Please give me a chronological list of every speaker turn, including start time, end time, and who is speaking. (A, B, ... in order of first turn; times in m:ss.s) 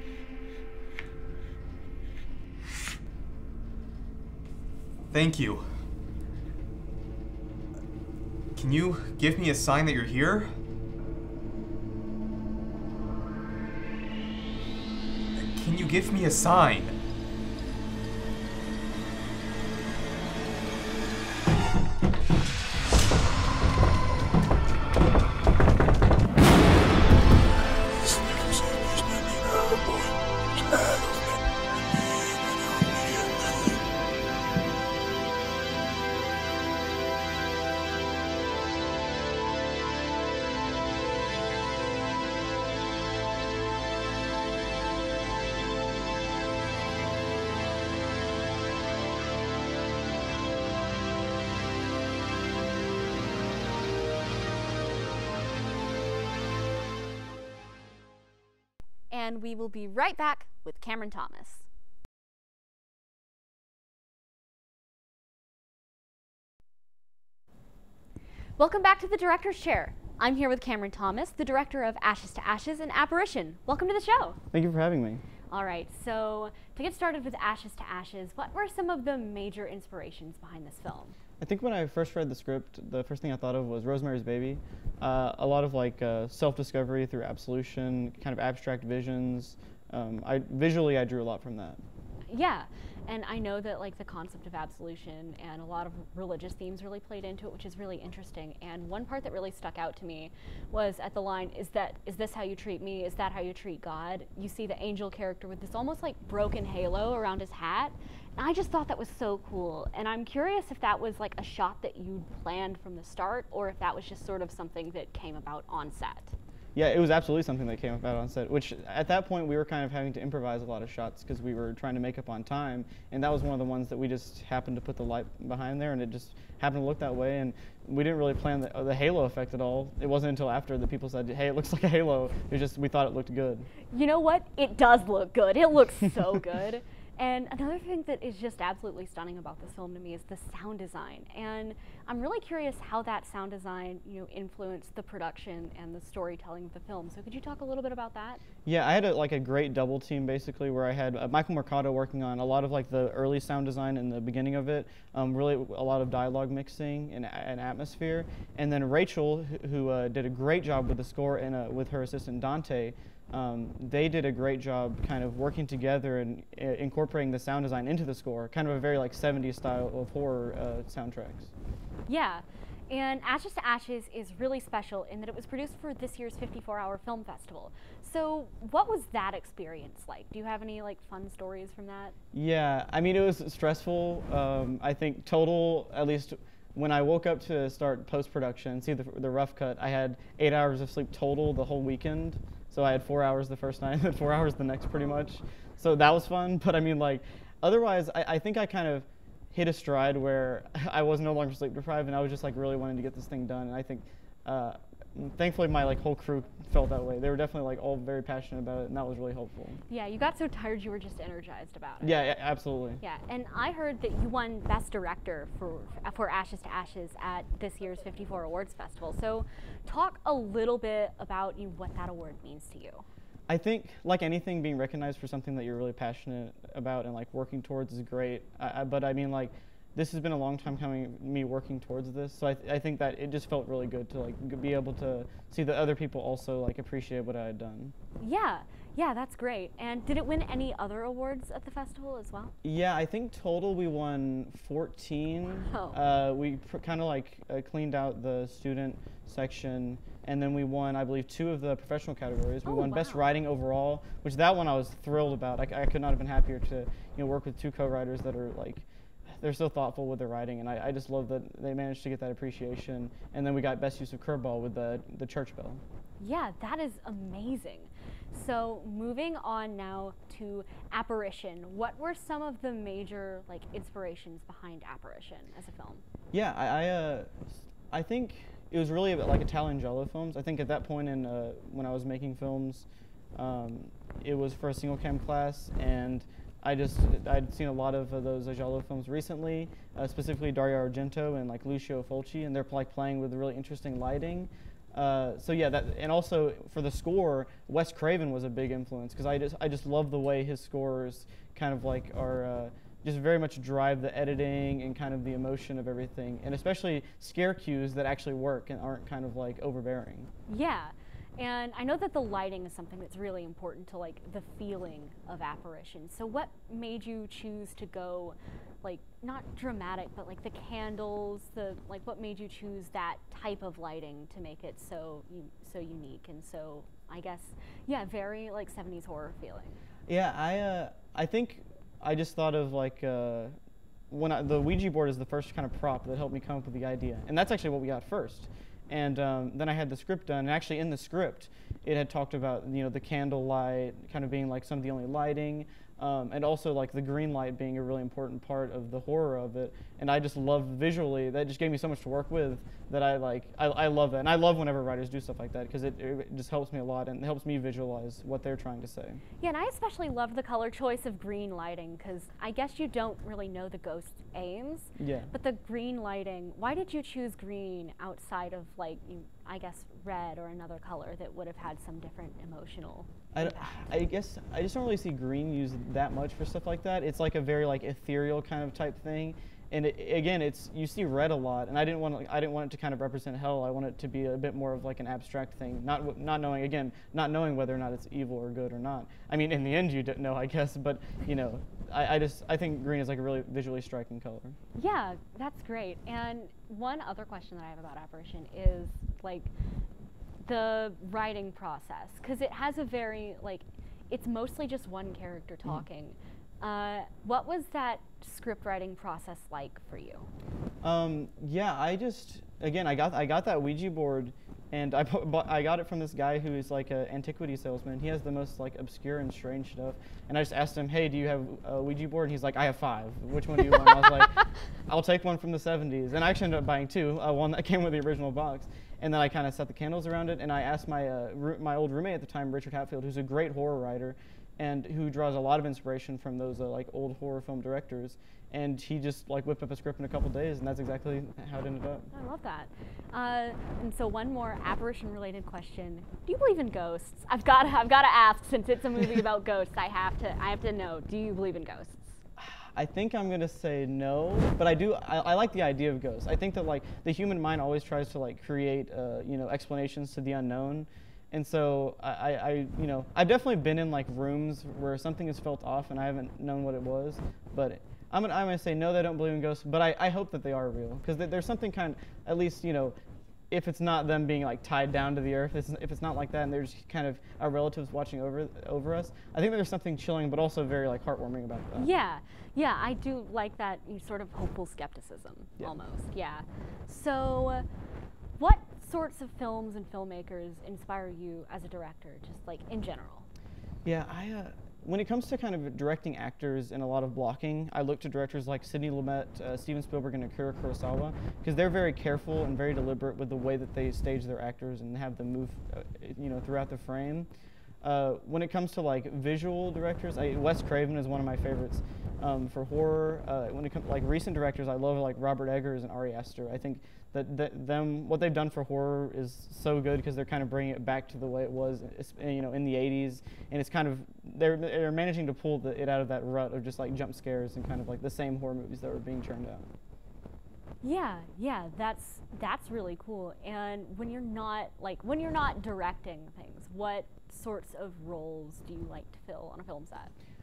0:05.1-0:05.7 A
0:08.6-0:10.5 A
0:15.4-0:17.0 A
0:59.1-1:01.7 B
1:08.6-1:14.4 B
1:14.5-1:15.2 C
1:15.5-1:21.2 B
1:21.4-1:31.8 C
1:32.3-1:56.4 B
1:56.7-2:13.7 C
2:13.9-2:28.4 B
2:28.6-2:51.5 C
2:52.1-3:02.2 B
3:02.3-3:29.8 C
3:29.9-3:32.2 B
3:32.0-3:33.0 C
3:33.0-3:43.0 B
3:43.5-3:57.9 C
3:58.2-4:02.5 B
4:02.6-4:25.8 C
4:05.6-4:06.0 B
4:12.6-4:13.2 B
4:26.2-4:36.0 B
4:36.3-5:10.3 C
5:10.5-5:29.8 B
5:30.1-5:33.5 C
5:34.1-5:59.2 C
5:59.4-6:13.9 B
6:05.0-6:05.3 C
6:13.3-6:34.6 C
6:34.8-6:39.5 B
6:40.4-6:50.3 B
6:50.8-7:22.1 C
7:22.1-7:32.2 B
7:32.4-7:53.0 C
7:53.5-8:01.9 C
8:01.8-8:07.6 B
8:08.4-8:13.3 B
8:13.8-8:27.3 C
8:27.8-8:49.7 C
8:50.8-9:00.1 B